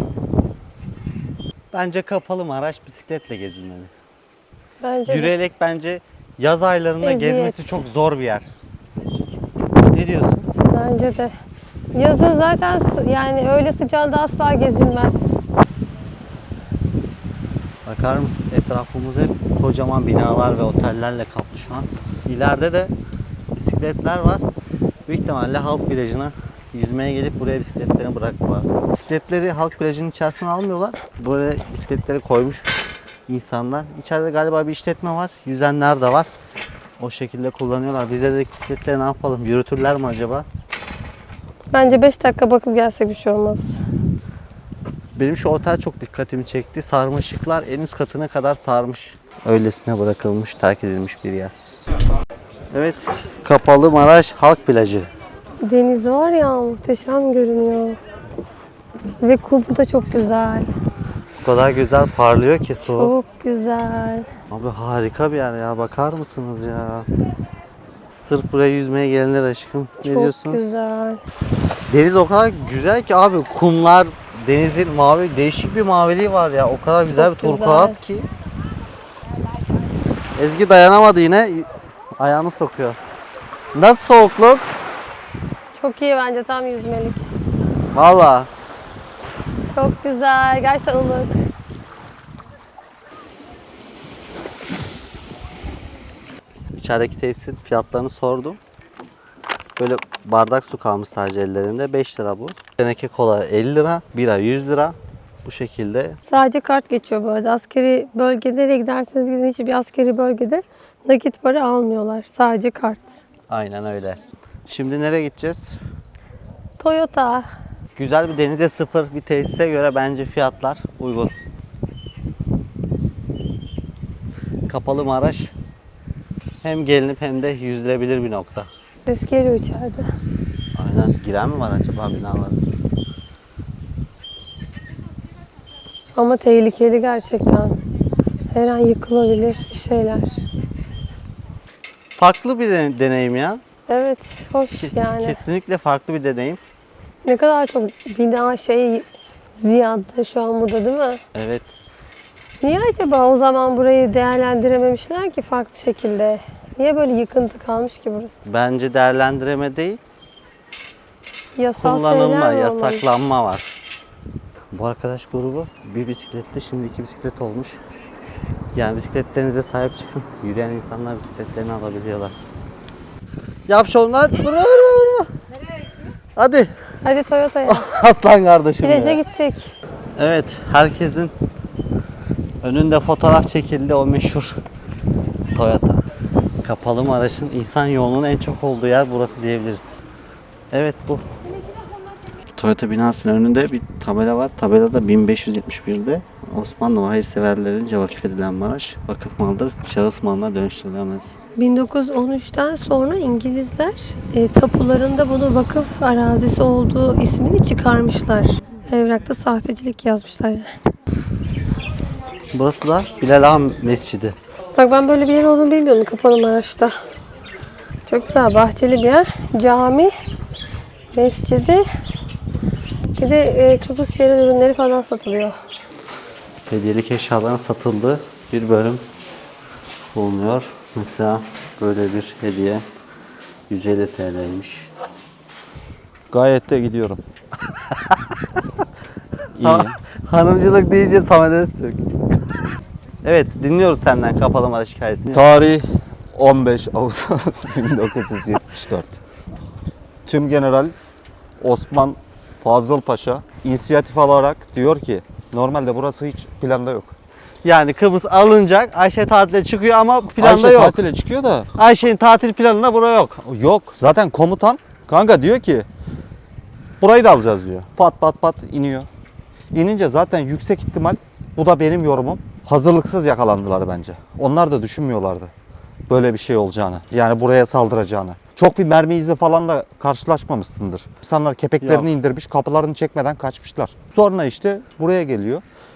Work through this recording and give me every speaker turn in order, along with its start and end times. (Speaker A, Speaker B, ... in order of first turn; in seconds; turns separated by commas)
Speaker A: 1.7-3.9, Speaker B: 4.8-5.3, Speaker A: 5.1-8.5, Speaker B: 7.0-7.8, Speaker A: 9.9-10.5, Speaker B: 10.7-11.3, Speaker B: 11.9-15.4, Speaker A: 17.9-22.9, Speaker A: 23.5-24.4, Speaker A: 25.1-32.7, Speaker A: 33.3-36.3, Speaker A: 37.0-40.5, Speaker B: 41.7-43.8, Speaker A: 45.2-51.5, Speaker A: 52.7-55.1, Speaker B: 55.6-58.0, Speaker B: 59.2-60.7, Speaker A: 61.4-63.1, Speaker B: 62.9-64.3, Speaker A: 64.5-67.1, Speaker A: 68.2-70.6, Speaker B: 70.0-71.2, Speaker A: 71.9-78.3, Speaker B: 77.1-78.0, Speaker A: 80.3-83.0, Speaker A: 83.7-84.7, Speaker B: 85.8-87.2, Speaker A: 87.9-88.5, Speaker B: 89.7-91.3, Speaker A: 96.7-98.6, Speaker A: 99.8-106.2, Speaker B: 106.2-113.2, Speaker A: 113.5-115.8, Speaker B: 116.8-117.5, Speaker A: 117.9-121.3, Speaker A: 124.7-125.5, Speaker A: 126.6-128.7, Speaker B: 129.1-130.1, Speaker A: 130.7-132.6, Speaker B: 136.1-137.8, Speaker B: 138.5-140.4, Speaker A: 142.2-143.6, Speaker B: 143.9-145.4, Speaker A: 144.7-146.6, Speaker B: 147.2-151.2, Speaker A: 151.3-151.8, Speaker B: 152.6-158.4, Speaker A: 158.4-160.0, Speaker B: 161.6-163.3, Speaker A: 161.8-163.7, Speaker A: 164.7-167.8, Speaker A: 168.7-172.3, Speaker A: 173.7-175.3, Speaker A: 176.3-176.7, Speaker B: 177.0-177.8, Speaker A: 177.7-179.2, Speaker B: 178.8-179.7, Speaker A: 180.2-181.3, Speaker A: 182.6-184.6, Speaker A: 185.5-186.0, Speaker A: 186.6-189.9, Speaker A: 190.7-191.2, Speaker A: 192.5-201.4, Speaker B: 201.6-210.7, Speaker A: 212.5-214.3, Speaker B: 214.8-216.9, Speaker B: 218.1-220.1, Speaker B: 221.1-221.8, Speaker B: 223.2-225.5, Speaker A: 226.7-229.0, Speaker A: 230.1-232.8, Speaker A: 233.7-234.9, Speaker C: 236.3-237.2, Speaker C: 239.5-239.9, Speaker A: 239.6-242.0, Speaker A: 243.2-245.4, Speaker C: 245.3-249.2, Speaker C: 250.2-250.9, Speaker C: 251.6-257.1, Speaker A: 257.6-261.0, Speaker C: 260.4-261.7, Speaker A: 261.8-263.4, Speaker C: 263.4-265.9, Speaker C: 267.0-269.1, Speaker C: 269.7-275.5, Speaker C: 276.1-285.6, Speaker A: 281.8-282.1